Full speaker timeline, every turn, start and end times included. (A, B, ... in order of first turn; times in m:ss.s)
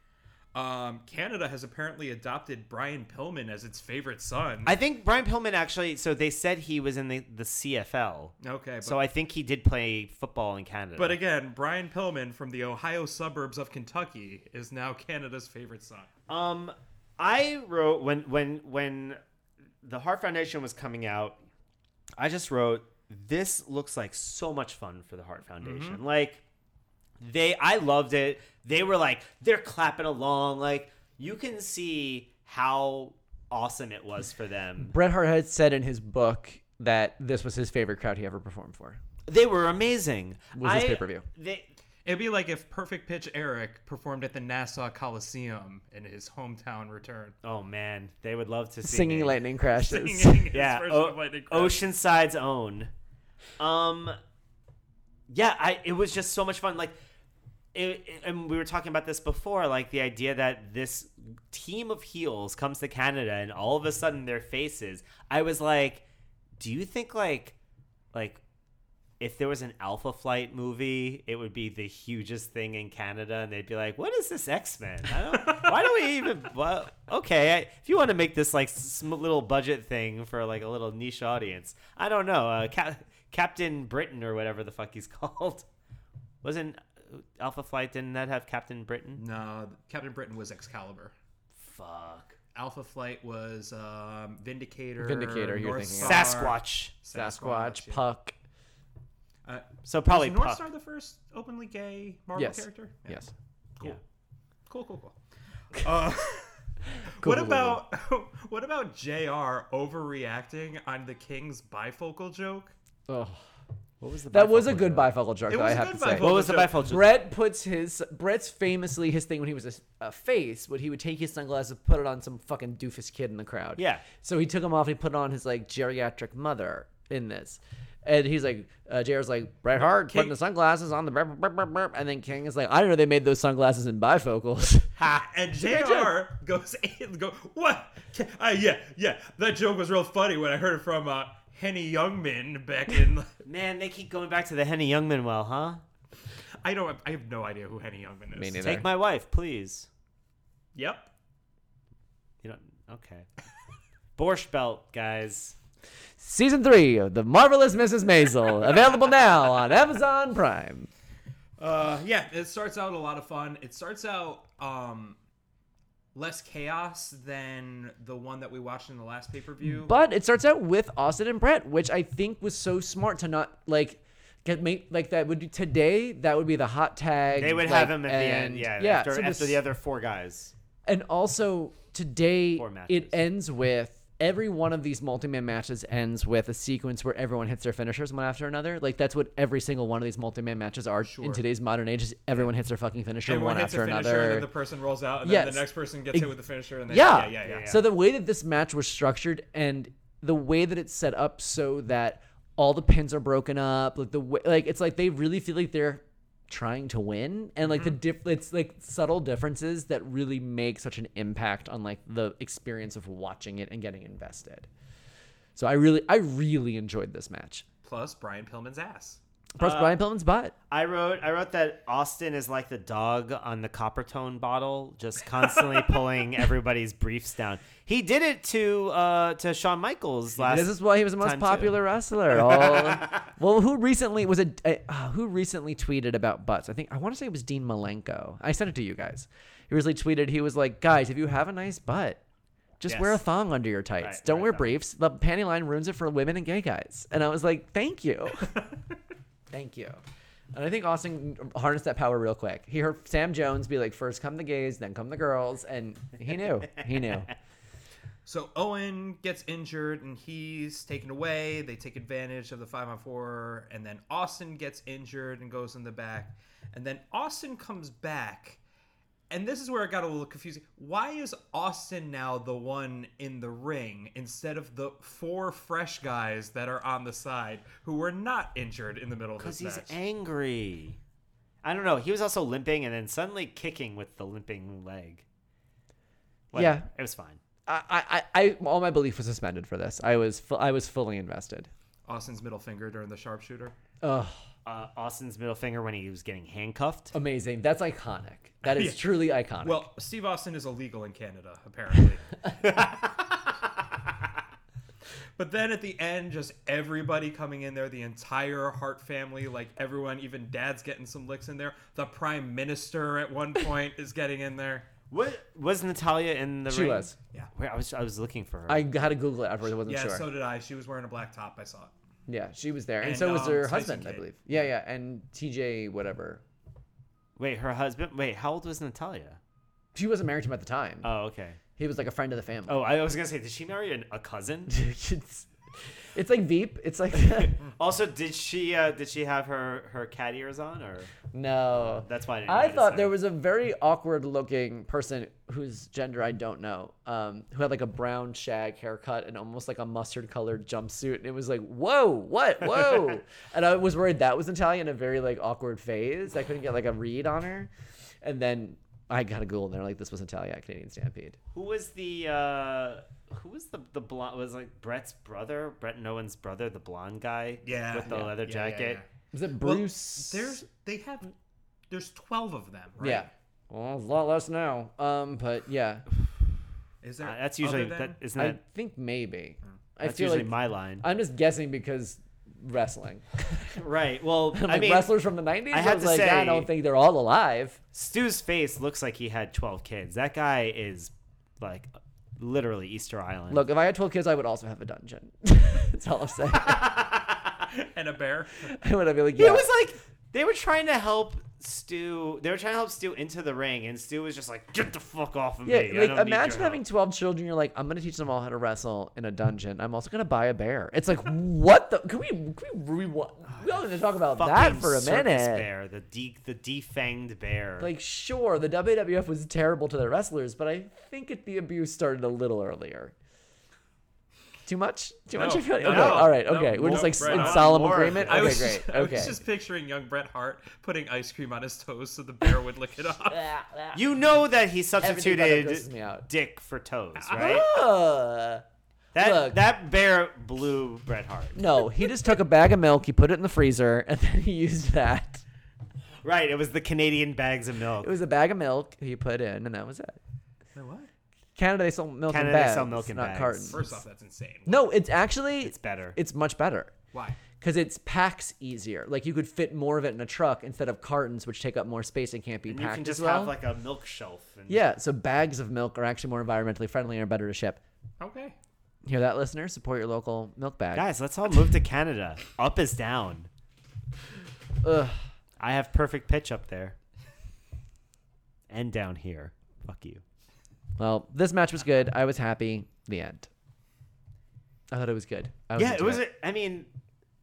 0:00.5-0:04.7 A
0:04.6-0:11.2 B
0:08.4-0:08.9 A
0:11.0-0:16.1 A
0:16.3-0:19.2 B
0:19.8-0:21.4 B
0:22.2-0:26.4 B
0:25.6-0:26.0 A
0:27.2-0:34.9 B
0:34.8-0:39.0 C
0:39.3-0:41.6 B
0:40.6-0:41.2 C
0:42.0-0:47.3 A
0:47.4-0:49.4 B
0:48.8-0:50.5 C
0:49.7-0:51.8 A
0:50.5-0:52.9 B
0:53.6-0:54.2 B
0:55.3-0:56.9 B
0:57.7-1:06.0 B
1:06.6-1:07.5 B
1:08.1-1:08.4 B
1:09.2-1:25.6 B
1:15.4-1:15.7 A
1:26.4-1:29.2 B
1:29.2-1:31.1 A
1:31.6-1:32.4 B
1:32.5-1:38.0 A
1:35.0-1:36.4 C
1:36.0-1:36.9 B
1:37.1-1:38.3 C
1:39.4-1:43.3 A
1:39.8-1:40.6 B
1:42.3-1:43.3 C
1:44.7-1:45.2 A
1:45.7-1:52.7 A
1:47.2-1:47.8 C
1:53.1-1:53.4 C
1:54.0-1:55.1 B
1:54.3-2:14.9 C
1:55.5-1:56.8 A
1:56.2-1:57.2 B
2:03.8-2:04.0 B
2:09.8-2:10.3 A
2:15.1-2:23.3 A
2:15.6-2:16.1 C
2:23.4-2:25.8 B
2:26.6-2:28.6 A
2:28.3-2:28.9 C
2:28.6-2:29.9 B
2:30.7-2:31.1 A
2:32.4-2:33.3 B
2:34.2-2:35.6 B
2:36.2-2:40.9 C
2:41.6-2:45.2 A
2:46.1-2:49.9 A
2:49.6-2:59.6 C
2:57.3-3:00.5 B
3:00.8-3:14.5 C
3:02.6-3:03.2 B
3:11.0-3:11.4 A
3:13.2-3:17.7 A
3:15.2-3:16.3 C
3:16.9-3:34.7 C
3:17.4-3:17.9 B
3:27.6-3:27.9 A
3:35.6-3:37.6 C
3:37.8-3:39.2 A
3:39.6-3:40.5 C
3:39.6-3:40.0 B
3:40.7-3:51.8 B
3:50.4-4:02.2 C
4:02.8-4:08.5 C
4:02.8-4:03.2 B
4:04.0-4:04.8 B
4:08.5-4:08.8 A
4:09.5-4:10.0 C
4:10.5-4:17.3 C
4:18.2-4:28.6 A
4:29.3-4:40.0 A
4:39.4-4:41.0 B
4:41.6-4:45.2 B
4:46.5-4:47.4 B
4:46.5-4:46.9 C
4:47.7-4:51.7 C
4:52.1-4:53.8 A
4:54.0-4:54.4 C
4:54.6-4:57.1 B
4:57.1-4:59.9 C
4:58.6-5:02.2 A
5:02.6-5:03.2 B
5:05.4-5:14.9 A
5:15.1-5:18.8 B
5:16.7-5:17.1 C
5:18.7-5:20.3 C
5:19.8-5:21.9 A
5:22.3-5:26.4 C
5:23.0-5:24.3 A
5:27.4-5:29.4 B
5:29.9-5:31.1 C
5:31.0-5:31.6 B
5:31.8-5:32.8 C
5:32.7-5:34.7 B
5:34.7-5:35.5 C
5:36.1-5:37.6 C
5:37.6-5:41.2 B
5:41.3-5:57.7 C
5:41.8-5:43.1 B
5:58.2-6:01.4 C
6:01.5-6:09.0 B
6:07.6-6:09.1 A
6:09.3-6:10.6 C
6:09.6-6:11.3 A
6:11.9-6:13.3 A
6:13.0-6:16.0 C
6:17.0-6:18.2 A
6:17.2-6:18.6 B
6:18.4-6:23.4 C
6:20.0-6:21.0 B
6:23.7-6:25.1 B
6:24.5-6:27.8 C
6:25.7-6:26.7 B
6:27.9-6:33.6 B
6:33.5-6:36.9 C
6:36.6-6:37.5 B
6:37.7-6:38.7 A
6:38.7-6:39.7 C
6:39.3-6:46.8 B
6:45.6-6:55.6 C
6:54.3-6:57.9 B
6:57.8-7:03.1 C
7:04.6-7:09.4 C
7:05.3-7:13.4 A
7:05.8-7:08.7 B
7:13.3-7:14.0 C
7:13.9-7:17.7 B
7:15.0-7:16.3 C
7:17.2-7:17.6 A
7:17.3-7:18.6 C
7:19.1-7:21.6 B
7:19.2-7:19.6 C
7:21.5-7:25.4 C
7:26.2-7:28.1 B
7:28.0-7:30.2 C
7:30.7-7:31.1 A
7:31.6-7:33.9 C
7:32.3-7:33.8 B
7:33.7-7:34.8 A
7:34.6-7:36.9 C
7:35.6-7:36.2 B
7:37.1-7:37.4 A
7:37.6-7:43.5 C
7:42.7-7:44.8 B
7:44.7-7:47.8 C
7:48.2-7:48.6 A
7:49.0-7:51.0 C
7:50.9-7:53.5 B
7:54.8-7:55.2 C
7:55.6-7:57.0 B
7:58.7-8:00.2 B
8:01.0-8:03.5 C
8:04.9-8:06.2 C
8:05.7-8:06.9 B